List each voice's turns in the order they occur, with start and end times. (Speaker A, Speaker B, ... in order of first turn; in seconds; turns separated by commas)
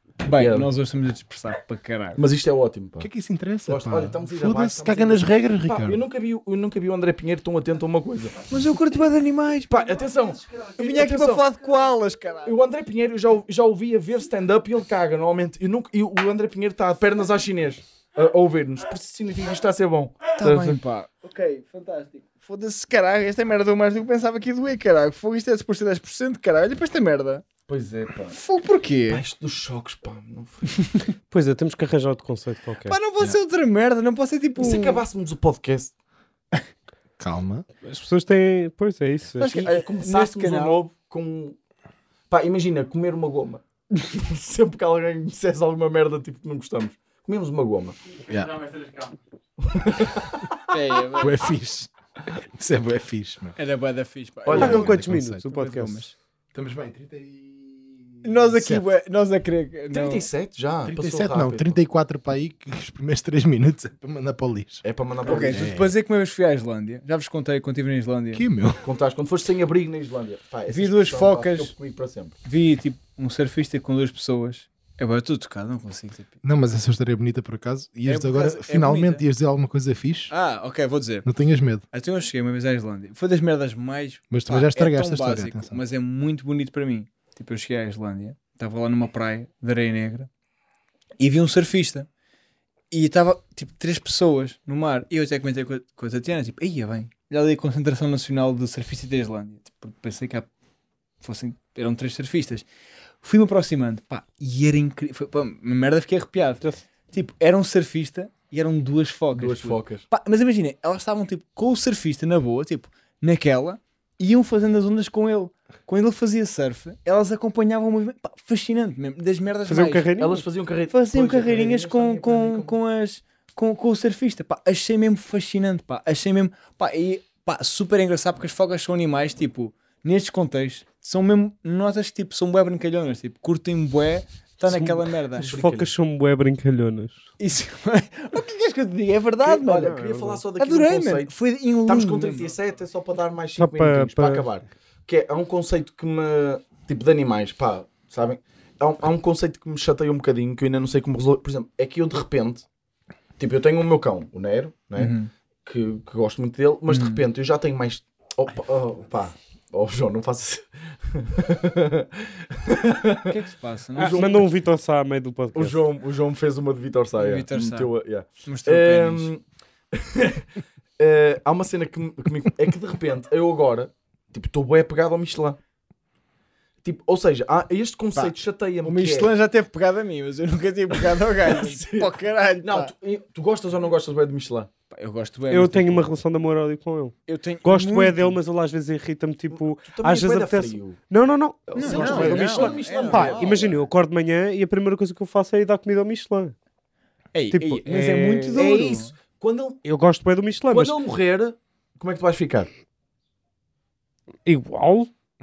Speaker A: 0.2-2.2, Speaker B: 0.3-0.7, Speaker B: 2.1-3.1, Speaker C: 3.0-6.0, Speaker B: 3.6-8.3, Speaker A: 8.5-9.9, Speaker B: 9.7-11.4, Speaker A: 10.8-12.5, Speaker B: 12.4-20.8, Speaker A: 20.4-27.4, Speaker B: 27.7-28.4, Speaker A: 28.3-29.2, Speaker B: 29.1-30.8, Speaker A: 30.7-31.1, Speaker D: 31.3-33.0, Speaker A: 32.9-35.0, Speaker B: 34.6-35.9, Speaker C: 37.2-37.6, Speaker D: 37.8-39.5, Speaker A: 39.4-40.8, Speaker B: 39.5-41.5, Speaker B: 42.3-48.0, Speaker C: 48.3-48.8, Speaker B: 49.6-50.6, Speaker A: 50.7-51.4, Speaker C: 51.1-53.5, Speaker A: 53.5-56.1, Speaker B: 54.5-54.9, Speaker C: 54.5-55.8, Speaker D: 54.5-56.1, Speaker C: 56.5-58.8, Speaker A: 58.2-60.3, Speaker B: 59.9-61.8, Speaker C: 60.8-64.8, Speaker B: 64.8-65.7, Speaker A: 65.2-68.4, Speaker C: 65.3-65.9, Speaker C: 68.3-68.8, Speaker B: 68.8-72.3, Speaker A: 70.7-71.7, Speaker A: 72.4-76.3, Speaker C: 76.4-80.3, Speaker A: 78.0-79.2, Speaker A: 80.3-81.3, Speaker C: 81.2-81.8, Speaker A: 81.9-90.3, Speaker C: 84.3-85.8, Speaker A: 91.2-92.1, Speaker A: 92.9-100.5, Speaker A: 101.2-102.6, Speaker A: 103.2-120.1, Speaker B: 109.3-110.0, Speaker D: 119.7-120.4, Speaker B: 120.2-122.7, Speaker A: 120.9-135.6, Speaker D: 134.7-137.3, Speaker B: 135.4-135.9, Speaker A: 137.4-140.0, Speaker B: 139.4-152.7, Speaker D: 139.6-140.4, Speaker A: 140.5-142.5, Speaker D: 143.6-144.5, Speaker B: 153.4-163.3, Speaker A: 155.0-155.3, Speaker A: 156.9-157.2, Speaker A: 163.2-164.3, Speaker B: 164.0-164.4, Speaker D: 164.0-165.8, Speaker B: 165.5-170.4, Speaker A: 167.2-167.9, Speaker A: 168.4-169.3, Speaker B: 171.0-175.6, Speaker B: 176.8-179.3, Speaker A: 178.1-182.9, Speaker B: 181.0-184.7, Speaker A: 184.9-186.2, Speaker D: 185.5-196.5, Speaker A: 187.3-188.4, Speaker B: 189.5-191.0, Speaker B: 191.7-193.8, Speaker A: 191.8-193.6, Speaker A: 197.3-199.1, Speaker D: 197.5-198.9, Speaker B: 198.6-199.8, Speaker D: 199.8-201.0, Speaker B: 200.7-202.7, Speaker D: 204.4-205.1